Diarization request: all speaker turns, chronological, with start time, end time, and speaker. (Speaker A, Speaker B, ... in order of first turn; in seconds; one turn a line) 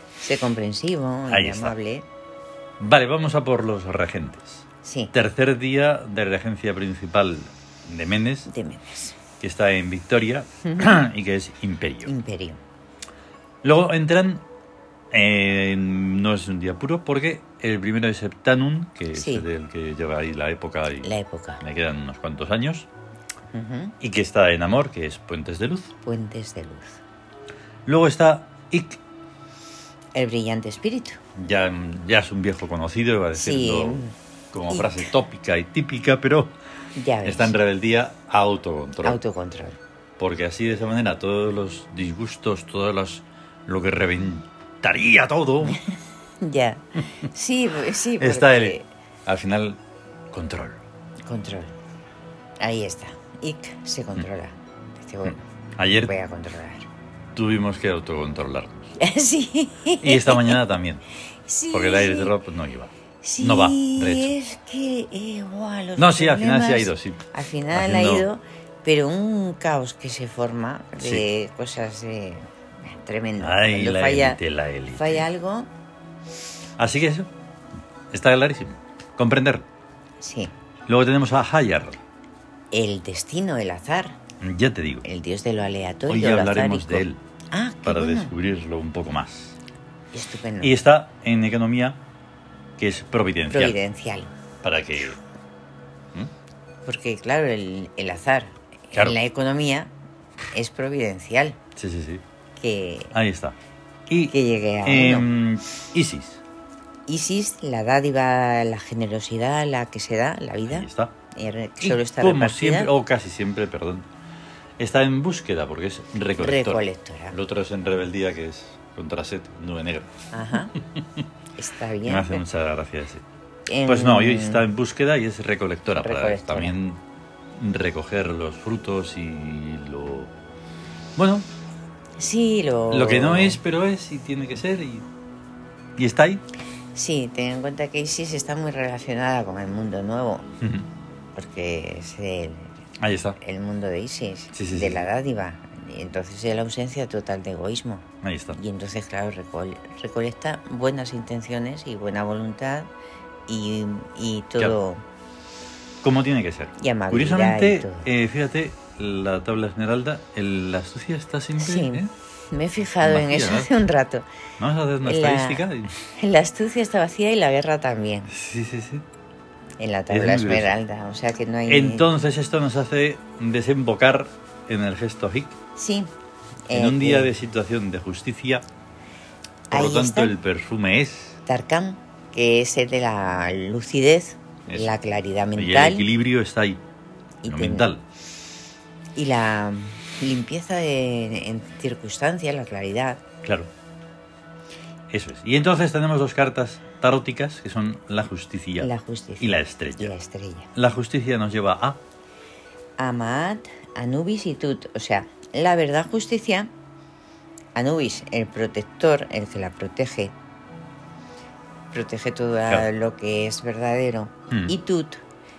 Speaker A: 0.2-2.1
Speaker B: 1.3-1.8
Speaker B: 2.8-8.5
Speaker A: 4.8-5.1
Speaker A: 8.5-9.2
Speaker B: 9.4-12.1
Speaker A: 10.7-10.9
Speaker A: 12.1-12.6
Speaker B: 13.6-14.4
Speaker B: 15.1-22.9
Speaker A: 19.1-19.5
Speaker A: 21.0-21.6
Speaker A: 23.5-23.9
Speaker B: 24.0-25.9
Speaker A: 26.0-27.0
Speaker B: 27.9-29.0
Speaker A: 30.1-31.2
Speaker B: 31.4-36.5
Speaker A: 33.4-34.1
Speaker A: 34.7-35.1
Speaker A: 37.0-37.6
Speaker B: 37.2-39.2
Speaker A: 39.0-39.8
Speaker B: 40.2-45.8
Speaker A: 45.6-48.9
Speaker B: 48.2-49.8
Speaker B: 50.3-50.8
Speaker A: 51.3-51.7
Speaker A: 52.6-56.9
Speaker B: 55.3-56.1
Speaker B: 57.4-58.9
Speaker A: 59.0-60.6
Speaker B: 60.0-61.0
Speaker A: 61.5-62.3
Speaker B: 61.7-64.3
Speaker A: 63.2-74.4
Speaker B: 66.0-68.3
Speaker B: 71.0-71.2
Speaker B: 73.4-75.2
Speaker A: 74.9-75.7
Speaker B: 76.8-77.3
Speaker B: 78.1-79.7
Speaker A: 80.2-80.5
Speaker B: 80.9-82.0
Speaker A: 82.7-84.2
Speaker B: 84.4-85.0
Speaker A: 85.0-88.3
Speaker B: 86.1-87.2
Speaker B: 87.8-89.6
Speaker A: 90.1-90.8
Speaker B: 90.6-92.0
Speaker B: 92.8-93.8
Speaker A: 93.5-94.3
Speaker B: 94.6-95.2
Speaker A: 96.8-99.9
Speaker A: 100.5-101.6
Speaker B: 101.8-102.2
Speaker A: 102.6-103.1
Speaker B: 103.1-103.6
Speaker B: 104.1-106.4
Speaker A: 104.3-105.3
Speaker A: 107.1-112.9
Speaker B: 110.7-111.1
Speaker B: 111.8-114.1
Speaker B: 114.8-120.1
Speaker A: 116.4-117.4
Speaker A: 120.3-120.8
Speaker A: 121.6-122.4
Speaker B: 122.1-123.2
Speaker A: 123.7-124.7
Speaker B: 123.9-127.0
Speaker A: 126.0-126.8
Speaker B: 127.6-130.3
Speaker B: 131.2-131.5
Speaker A: 132.2-133.6
Speaker B: 132.9-135.1
Speaker B: 136.0-136.4
Speaker A: 136.9-140.5
Speaker B: 140.6-140.9
Speaker A: 141.3-142.8
Speaker B: 143.0-143.4
Speaker A: 143.4-148.0
Speaker B: 144.5-145.1
Speaker B: 148.2-148.6
Speaker A: 148.6-152.9
Speaker A: 153.5-155.0
Speaker B: 156.0-162.1
Speaker A: 156.8-158.1
Speaker A: 161.6-164.3
Speaker B: 163.0-163.7
Speaker B: 164.6-166.0
Speaker A: 165.0-165.6
Speaker A: 166.2-168.3
Speaker B: 168.3-169.1
Speaker A: 169.8-172.1
Speaker B: 170.1-170.7
Speaker B: 171.7-175.6
Speaker A: 175.8-176.1
Speaker A: 176.7-177.3
Speaker B: 176.7-178.6
Speaker A: 179.7-180.3
Speaker B: 179.7-181.4
Speaker A: 181.5-186.1
Speaker B: 184.7-185.0
Speaker B: 185.6-186.8
Speaker A: 187.4-187.9
Speaker B: 187.4-188.0
Speaker A: 189.2-193.2
Speaker B: 195.1-200.1
Speaker A: 198.8-200.7
Speaker B: 200.8-202.0
Speaker A: 203.0-206.7
Speaker A: 207.8-210.3
Speaker A: 211.9-215.2